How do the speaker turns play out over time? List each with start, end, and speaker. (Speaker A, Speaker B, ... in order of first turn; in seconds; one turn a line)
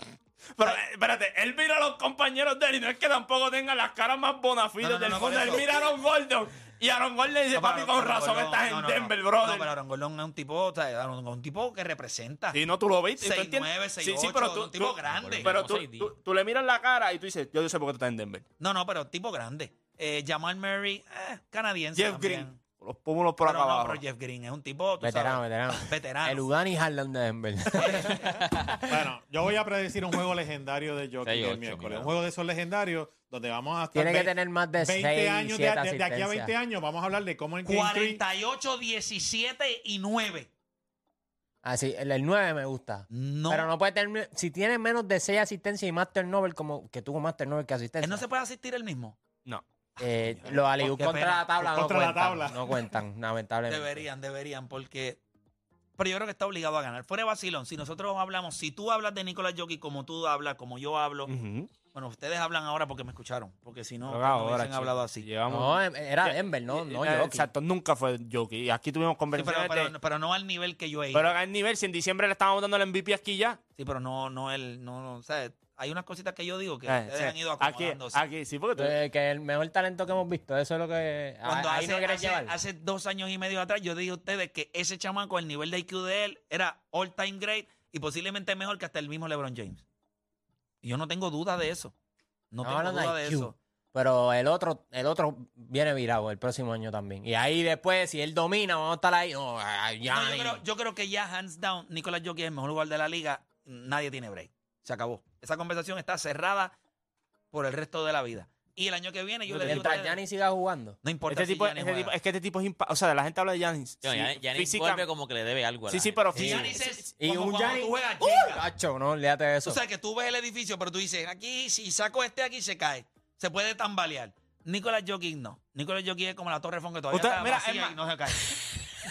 Speaker A: 0.6-9.7
Speaker B: 4.8-6.0
Speaker B: 7.5-12.6
Speaker A: 12.5-18.5
Speaker B: 13.2-15.6
Speaker C: 15.1-16.1
Speaker B: 18.6-22.6
Speaker A: 21.9-24.0
Speaker B: 23.4-26.4
Speaker D: 25.0-28.1
Speaker B: 27.8-28.5
Speaker C: 28.1-28.9
Speaker E: 28.8-38.2
Speaker C: 31.3-32.1
Speaker D: 33.9-36.5
Speaker B: 37.6-40.5
Speaker D: 41.6-48.2
Speaker B: 43.1-43.7
Speaker B: 48.0-49.2
Speaker D: 50.0-54.0
Speaker B: 50.0-51.5
Speaker E: 51.6-52.9
Speaker B: 53.7-55.2
Speaker B: 56.0-61.3
Speaker A: 61.3-61.7
Speaker B: 61.9-65.3
Speaker A: 64.1-69.9
Speaker D: 65.5-67.5
Speaker B: 69.3-71.4
Speaker A: 71.1-73.6
Speaker B: 73.8-78.2
Speaker A: 76.9-79.0
Speaker D: 78.8-82.5
Speaker B: 81.5-89.8
Speaker B: 90.8-91.9
Speaker B: 92.5-93.5
Speaker D: 92.6-100.6
Speaker B: 100.1-106.8
Speaker B: 107.5-110.2
Speaker A: 109.5-110.0
Speaker D: 109.6-111.0
Speaker B: 111.0-112.2
Speaker A: 111.3-115.1
Speaker C: 114.0-116.3
Speaker A: 115.9-117.1
Speaker B: 116.3-118.7
Speaker D: 116.3-119.8
Speaker B: 119.7-128.5
Speaker A: 127.1-128.0